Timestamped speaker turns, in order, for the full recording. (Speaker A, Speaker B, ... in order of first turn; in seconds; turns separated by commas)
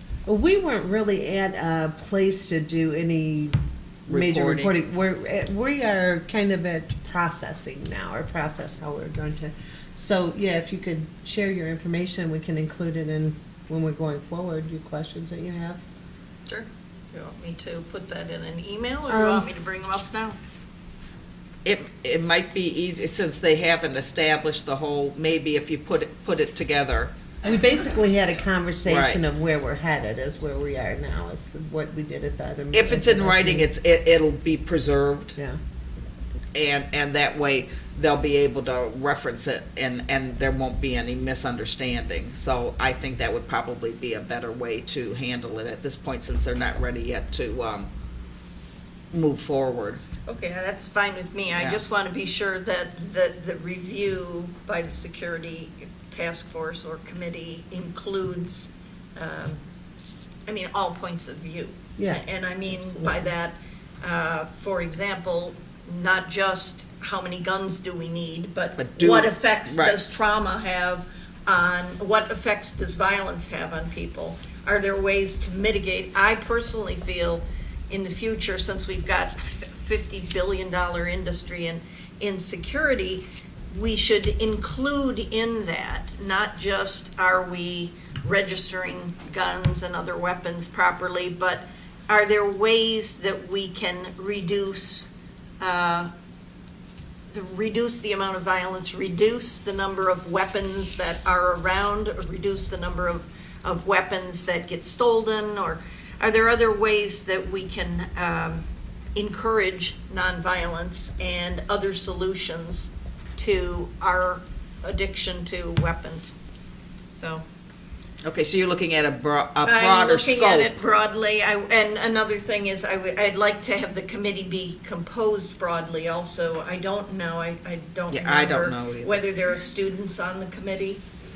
Speaker A: 0.3-3.6, Speaker B: 4.1-4.7, Speaker A: 4.1-15.8, Speaker C: 16.5-20.4, Speaker A: 19.1-19.5, Speaker B: 21.6-27.1, Speaker A: 27.4-33.7, Speaker B: 28.9-29.2, Speaker B: 32.7-35.3, Speaker B: 36.5-47.9, Speaker B: 49.1-50.0, Speaker C: 50.3-59.6, Speaker B: 51.5-51.8, Speaker C: 60.5-95.1, Speaker A: 62.0-63.3, Speaker B: 68.8-70.0, Speaker C: 95.6-96.1, Speaker C: 97.3-116.3, Speaker C: 117.2-117.5, Speaker B: 118.2-120.8, Speaker C: 119.7-131.0, Speaker B: 128.1-129.2